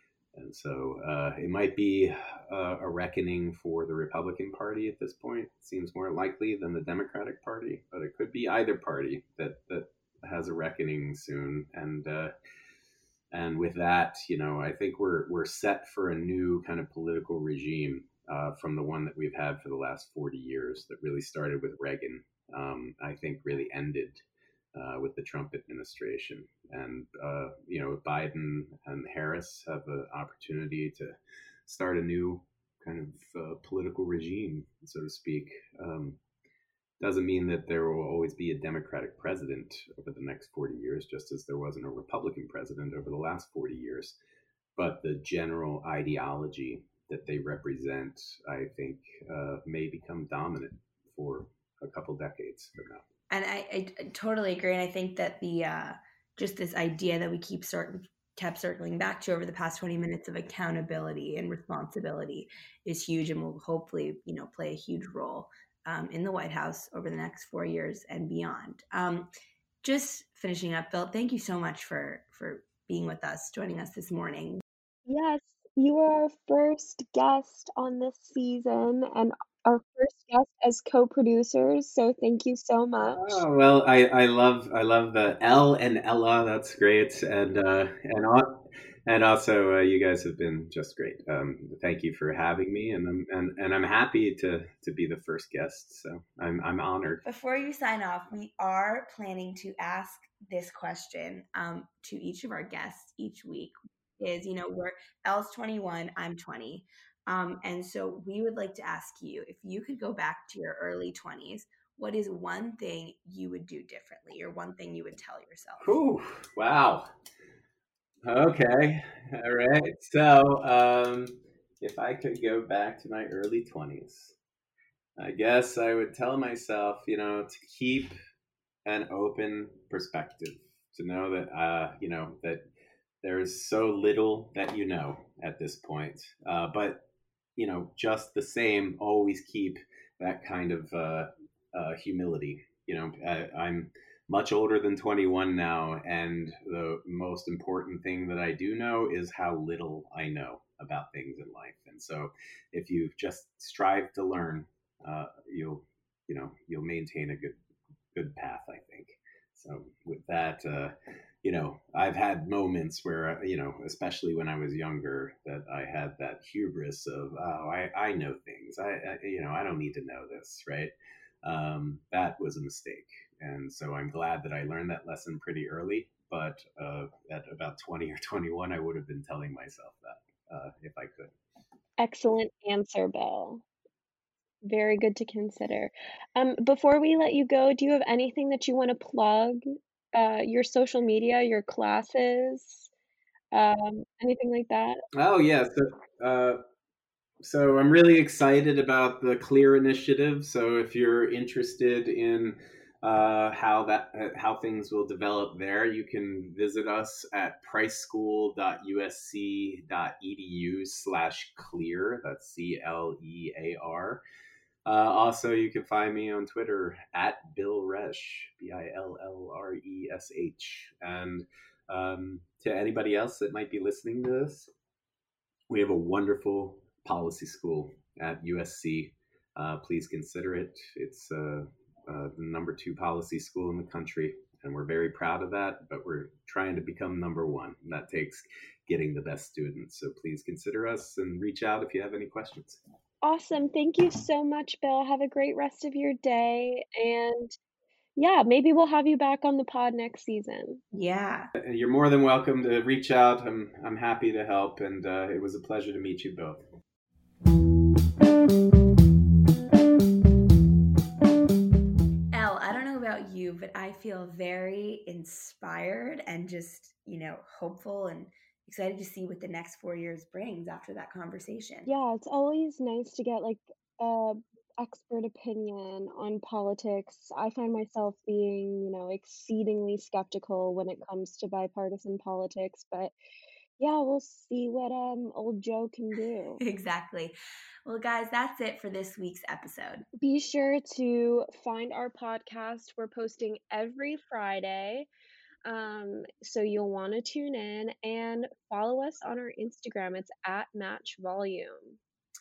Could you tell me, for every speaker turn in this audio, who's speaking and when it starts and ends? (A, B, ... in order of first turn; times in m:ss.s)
0:00.3-0:12.3 A
0:13.3-0:24.2 A
0:24.7-0:36.2 A
0:37.0-0:44.2 A
0:44.8-0:53.0 A
0:53.3-1:09.3 B
1:09.8-1:14.6 B
1:15.1-1:23.4 C
1:23.1-1:37.2 A
1:37.2-1:56.0 B
1:55.8-1:57.1 A
1:58.2-2:04.4 A
2:05.2-2:08.1 A
2:08.8-2:12.6 A
2:13.2-2:17.0 A
2:17.6-2:37.6 A
2:38.1-2:50.9 A
2:51.4-3:01.3 A
3:02.0-3:03.6 C
3:04.6-3:12.9 C
3:13.5-3:15.0 C
3:15.2-3:16.6 A
3:17.4-3:34.2 A
3:34.8-3:44.7 A
3:45.7-4:02.8 A
4:03.2-4:07.6 C
4:08.2-4:10.8 C
4:10.9-4:11.5 B
4:11.6-4:16.6 A
4:22.3-4:31.9 B
4:31.8-4:43.1 C
4:43.8-4:46.6 C
4:46.6-4:50.0 B
4:50.2-4:55.1 C
4:55.6-5:02.0 C